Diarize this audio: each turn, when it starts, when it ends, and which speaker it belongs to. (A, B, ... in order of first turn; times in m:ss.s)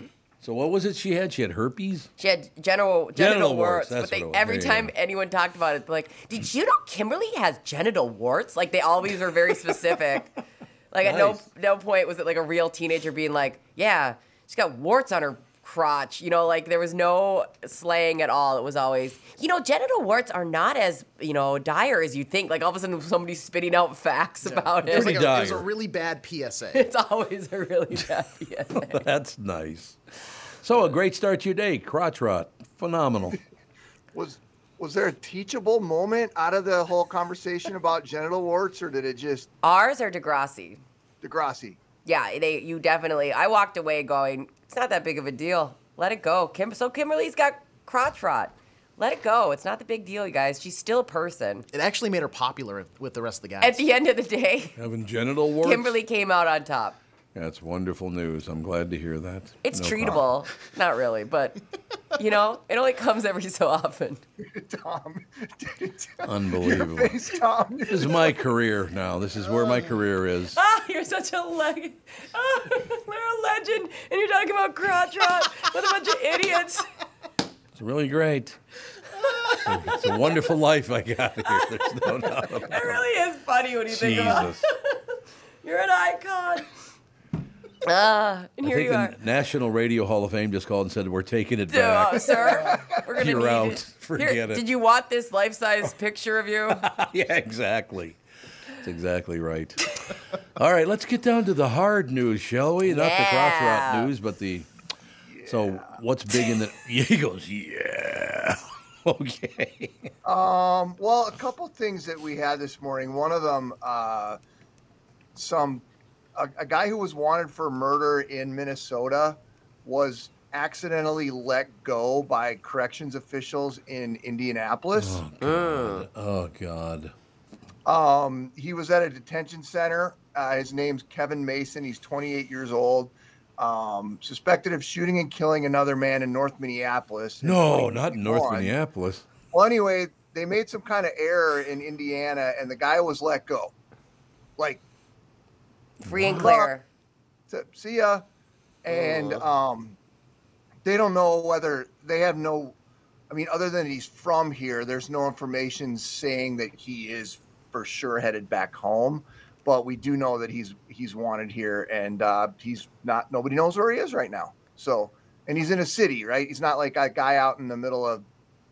0:00.4-0:02.1 A
0:02.2-0:10.3 B
0:03.2-0:04.9 A
0:10.9-0:25.2 B
0:11.0-0:11.5 A
0:24.4-0:26.9 C
0:24.9-0:25.7 A
0:26.7-0:29.0 B
0:28.9-0:30.0 A
0:30.6-0:33.4 A
0:34.1-0:39.5 D
0:39.6-0:40.8 B
0:41.2-0:41.8 D
0:42.0-0:51.7 B
0:51.7-0:53.8 C
0:53.6-0:54.8 B
0:54.8-0:56.0 A
0:55.6-0:57.0 B
0:57.4-1:00.2 A
0:59.6-1:01.6 B
1:02.2-1:04.2 B
1:04.4-1:08.4 D
1:06.2-1:07.2 A
1:07.9-1:10.6 A
1:10.6-1:16.9 B
1:17.8-1:18.6 A
1:19.5-1:23.0 A
1:22.6-1:25.0 B
1:23.9-1:24.7 A
1:25.6-1:26.7 B
1:27.8-1:29.1 B
1:28.6-1:34.6 A
1:31.7-1:36.9 B
1:36.7-1:38.2 A
1:38.8-1:39.8 A
1:40.6-1:44.7 A
1:42.9-1:44.1 B
1:45.3-1:45.8 D
1:45.5-1:50.1 A
1:50.2-1:54.4 D
1:55.4-1:55.8 D
1:56.4-2:05.2 D
2:05.0-2:07.1 A
2:05.4-2:06.1 B
2:07.9-2:18.7 D
2:17.4-2:19.3 A
2:19.5-2:23.7 D
2:24.6-2:24.8 D
2:26.0-2:26.6 A
2:26.1-2:26.8 B
2:26.3-2:26.7 D
2:27.5-2:28.2 D
2:28.8-2:30.0 D
2:30.8-2:32.8 D
2:33.3-2:48.2 D